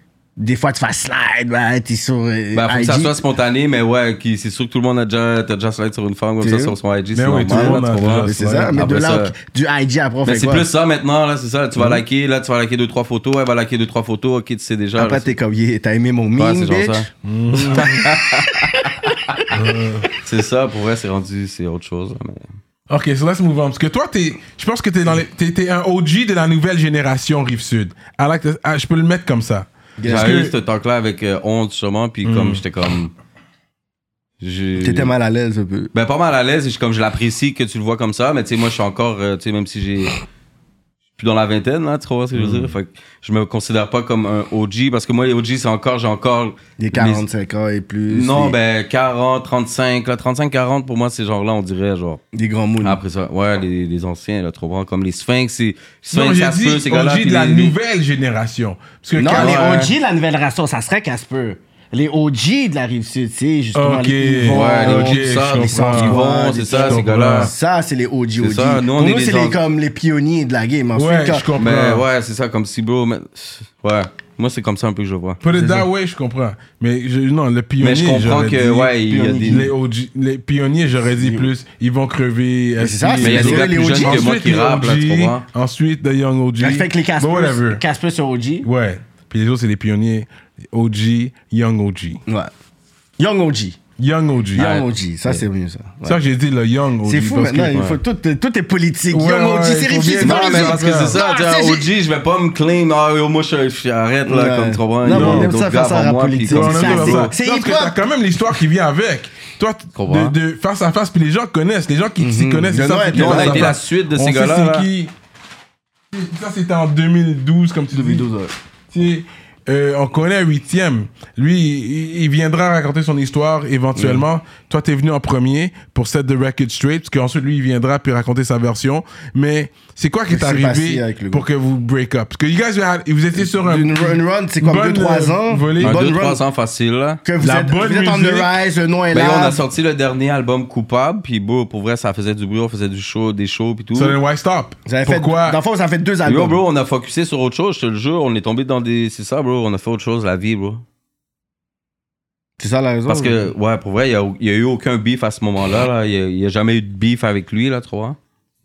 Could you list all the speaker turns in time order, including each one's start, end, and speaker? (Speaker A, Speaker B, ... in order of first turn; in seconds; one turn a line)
Speaker A: 0.4-3.2
Speaker B: 2.5-9.3
Speaker A: 6.4-6.8
Speaker C: 7.2-8.8
Speaker A: 7.4-10.7
Speaker B: 10.2-15.3
Speaker A: 15.0-19.5
Speaker B: 16.4-19.5
Speaker C: 17.2-18.1
Speaker C: 19.5-20.1
Speaker B: 20.2-22.5
Speaker C: 22.9-30.5
Speaker A: 30.0-30.4
Speaker B: 30.0-33.1
Speaker C: 32.2-32.6
Speaker B: 34.4-35.1
Speaker A: 34.8-35.9
Speaker B: 35.9-40.2
Speaker B: 41.2-47.2
Speaker C: 42.4-42.7
Speaker A: 46.8-48.6
Speaker B: 48.1-52.2
Speaker A: 52.3-53.0
Speaker B: 52.8-57.8
Speaker C: 56.1-59.6
Speaker A: 59.2-71.5
Speaker B: 59.3-59.9
Speaker C: 63.8-66.2
Speaker B: 64.5-67.5
Speaker C: 66.8-67.5
Speaker B: 68.4-69.6
Speaker C: 71.0-72.0
Speaker B: 71.6-75.4
Speaker C: 75.4-87.8
Speaker A: 75.5-75.9
Speaker B: 77.8-79.7
Speaker A: 79.1-79.7
Speaker A: 81.2-81.5
Speaker A: 82.8-84.3
Speaker B: 83.2-85.5
Speaker A: 86.6-88.7
Speaker C: 88.6-92.2
Speaker A: 93.2-93.8
Speaker C: 94.0-94.7
Speaker B: 94.6-95.4
Speaker A: 94.6-96.2
Speaker C: 96.0-97.8
Speaker A: 97.0-101.9
Speaker B: 97.7-98.0
Speaker C: 99.1-101.2
Speaker B: 100.2-107.3
Speaker A: 104.3-108.0
Speaker C: 105.1-105.5
Speaker C: 106.5-115.1
Speaker B: 110.0-110.3
Speaker A: 112.2-113.8
Speaker B: 113.1-114.9
Speaker C: 116.1-118.3
Speaker A: 117.9-118.5
Speaker C: 118.9-136.0
Speaker A: 124.0-124.2
Speaker A: 130.3-131.5
Speaker A: 133.4-136.4
Speaker B: 135.8-137.2
Speaker A: 137.2-139.6
Speaker C: 137.4-138.5
Speaker B: 139.1-144.2
Speaker C: 143.9-145.6
Speaker A: 144.9-146.6
Speaker B: 146.2-150.8
Speaker A: 152.6-153.4
Speaker B: 153.1-158.2